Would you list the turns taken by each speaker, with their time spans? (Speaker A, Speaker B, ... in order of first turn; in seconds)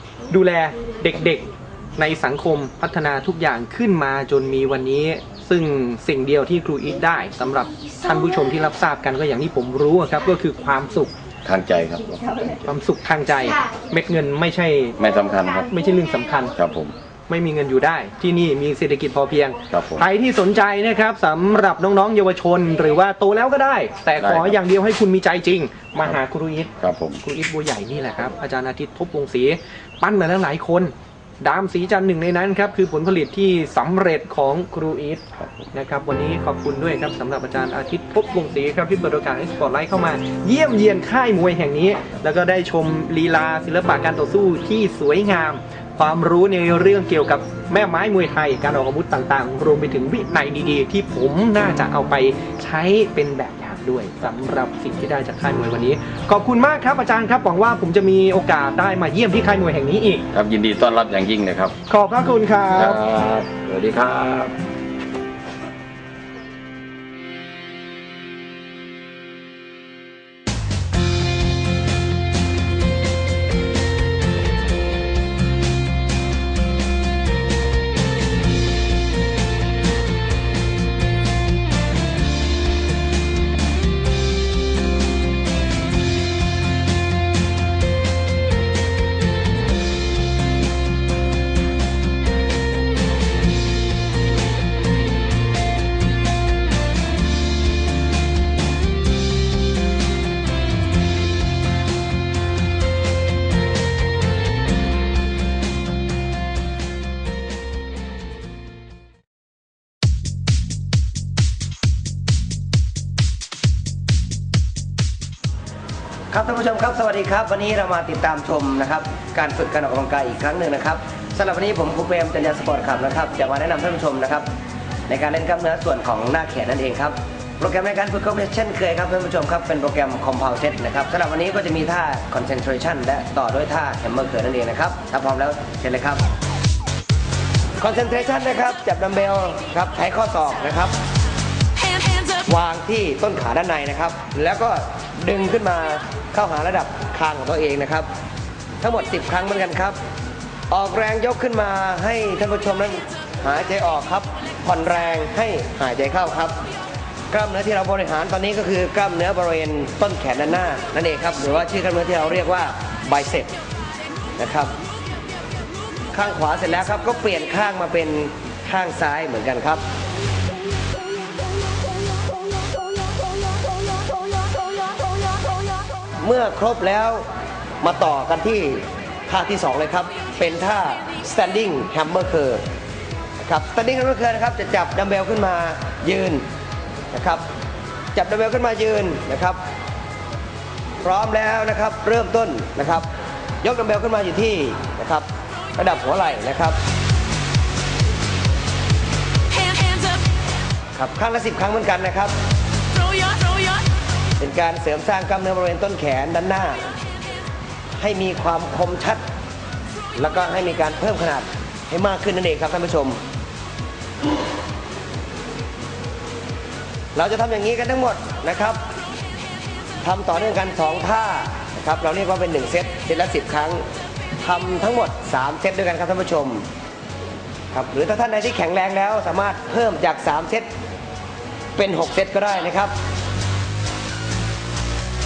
Speaker A: 0.3-11.1, 12.6-15.0, 15.7-16.5, 17.3-26.7, 27.2-60.2, 61.9-63.0
Speaker B: 11.4-12.7, 15.0-15.6, 16.6-16.9, 19.7-20.0, 24.2-24.6, 26.8-27.2, 35.4-35.7, 60.3-61.8, 62.7-64.5
Speaker C: 116.3-124.5, 125.1-136.2, 137.8-141.0, 142.4-148.1, 148.8-150.0, 150.7-156.6, 157.3-163.5, 164.4-164.7, 166.1-169.8, 176.2-177.2, 177.8-182.6, 183.4-186.4, 187.1-187.5, 188.1-189.6, 191.0-193.1, 193.6-196.8, 200.9-202.3, 204.4-206.8, 208.0-209.2, 210.1-213.2, 217.1-218.8, 220.0-223.8, 224.4-226.7, 227.7-230.7, 231.8-232.9